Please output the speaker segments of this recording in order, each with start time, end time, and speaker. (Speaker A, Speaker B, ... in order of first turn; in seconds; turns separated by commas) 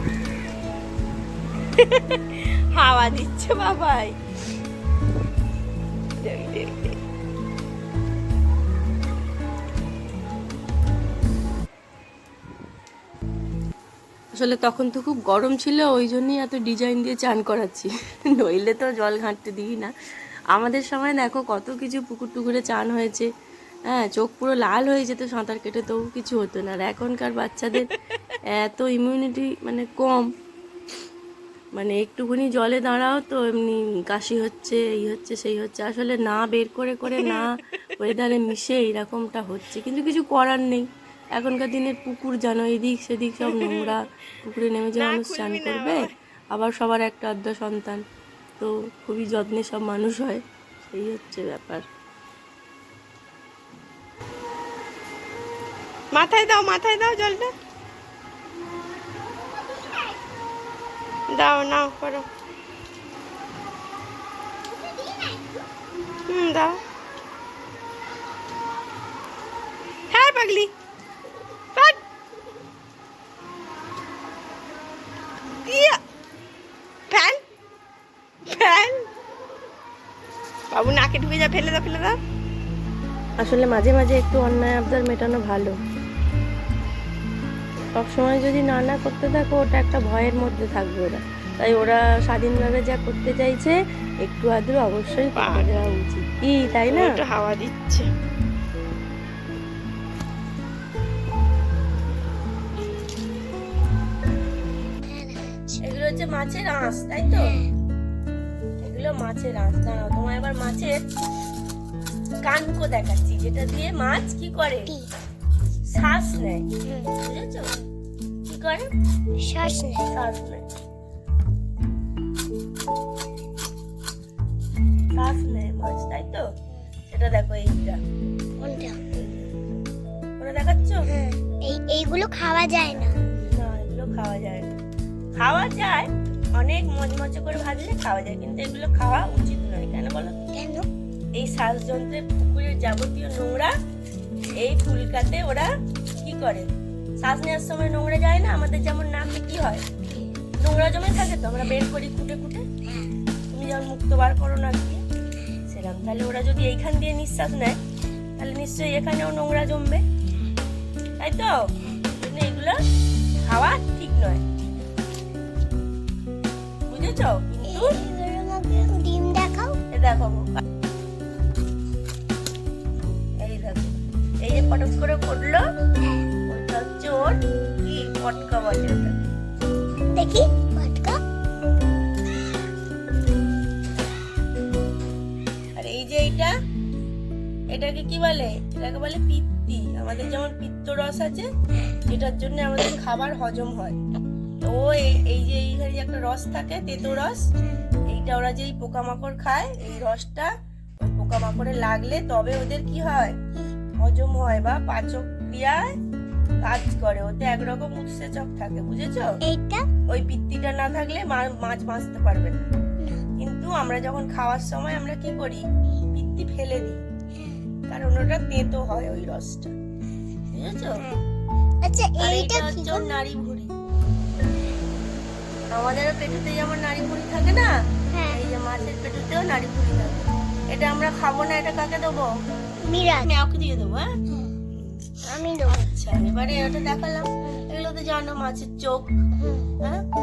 Speaker A: 1.7-4.1, Speaker A: 6.2-7.0, Speaker B: 14.3-19.9, Speaker B: 20.5-23.3, Speaker B: 23.9-27.9, Speaker B: 28.5-30.3, Speaker B: 31.7-48.0, Speaker A: 37.1-37.5, Speaker A: 43.4-44.0, Speaker A: 44.9-46.1, Speaker B: 48.6-51.8, Speaker A: 56.1-57.5, Speaker A: 61.3-62.3, Speaker C: 64.8-65.4, Speaker A: 66.3-66.8, Speaker A: 70.1-70.7, Speaker A: 75.6-76.0, Speaker A: 77.1-77.4, Speaker A: 78.4-79.1, Speaker A: 80.7-82.2, Speaker B: 83.4-85.8, Speaker B: 87.9-97.1, Speaker A: 95.3-95.7, Speaker A: 96.9-98.1, Speaker C: 105.1-105.8, Speaker A: 105.8-107.5, Speaker C: 107.3-107.7, Speaker A: 108.8-111.0, Speaker A: 112.4-114.9, Speaker A: 115.8-116.7, Speaker C: 116.8-117.1, Speaker A: 117.2-117.8, Speaker A: 118.4-118.9, Speaker C: 119.4-120.1, Speaker A: 120.1-120.6, Speaker A: 125.1-126.5, Speaker A: 127.1-128.0, Speaker C: 128.6-129.0, Speaker A: 129.1-129.5, Speaker A: 130.4-131.1, Speaker C: 131.1-133.2, Speaker A: 132.9-134.8, Speaker A: 135.3-140.3, Speaker C: 140.5-140.9, Speaker A: 141.3-143.7, Speaker A: 144.5-146.7, Speaker A: 147.2-149.8, Speaker A: 150.6-152.7, Speaker A: 153.5-155.0, Speaker A: 155.7-157.8, Speaker A: 158.4-160.0, Speaker A: 161.2-162.8, Speaker A: 163.4-164.4, Speaker A: 166.9-168.0, Speaker C: 167.6-169.8, Speaker A: 169.9-170.6, Speaker A: 173.4-175.6, Speaker C: 176.0-176.2, Speaker A: 176.5-179.2, Speaker C: 180.1-181.2, Speaker A: 185.8-186.5, Speaker A: 187.7-191.5, Speaker A: 192.1-194.0, Speaker A: 194.6-197.5, Speaker C: 197.6-197.9, Speaker A: 198.1-203.4, Speaker A: 204.0-205.9, Speaker A: 206.6-209.4, Speaker C: 209.4-209.9, Speaker A: 210.1-212.7, Speaker C: 213.0-213.3, Speaker A: 213.4-217.0, Speaker C: 217.3-217.6, Speaker A: 217.9-219.7, Speaker A: 220.5-221.0, Speaker C: 221.8-223.1, Speaker A: 222.2-223.7, Speaker A: 225.7-227.7, Speaker C: 228.1-228.4, Speaker A: 228.3-232.3, Speaker C: 232.8-233.3, Speaker A: 233.1-234.1, Speaker C: 234.3-234.5, Speaker A: 234.8-239.2, Speaker C: 235.2-235.8, Speaker C: 239.3-239.7